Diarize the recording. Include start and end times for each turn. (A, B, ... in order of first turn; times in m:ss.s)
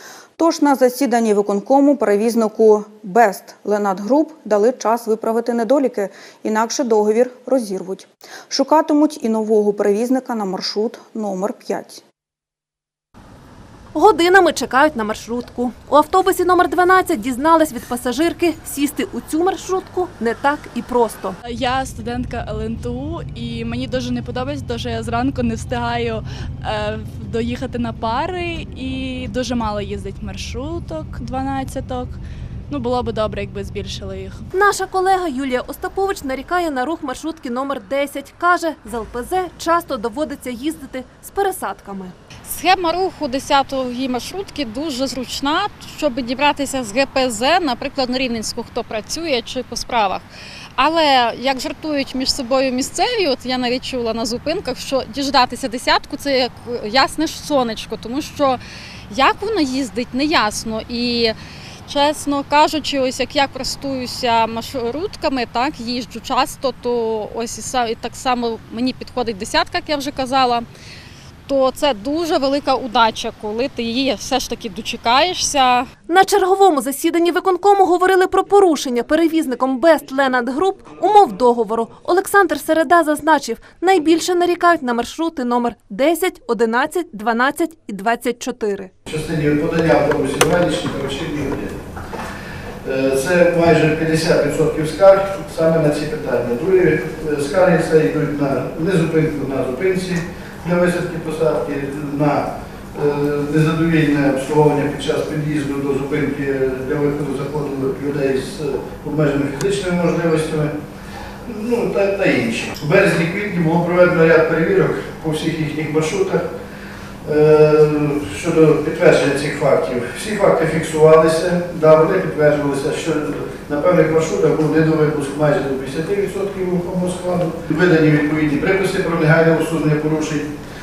0:00.4-0:12.0 A
0:13.9-0:21.4 B
0:21.4-0:34.4 C
0:34.5-0:42.2 B
0:42.4-0:50.2 D
0:50.8-1:01.3 D
1:01.8-1:10.6 D
1:11.5-1:15.9 D
1:16.1-1:28.9 B
1:29.1-1:31.8 E
1:32.8-1:50.7 E
1:51.4-1:56.4 E
1:57.2-2:10.5 E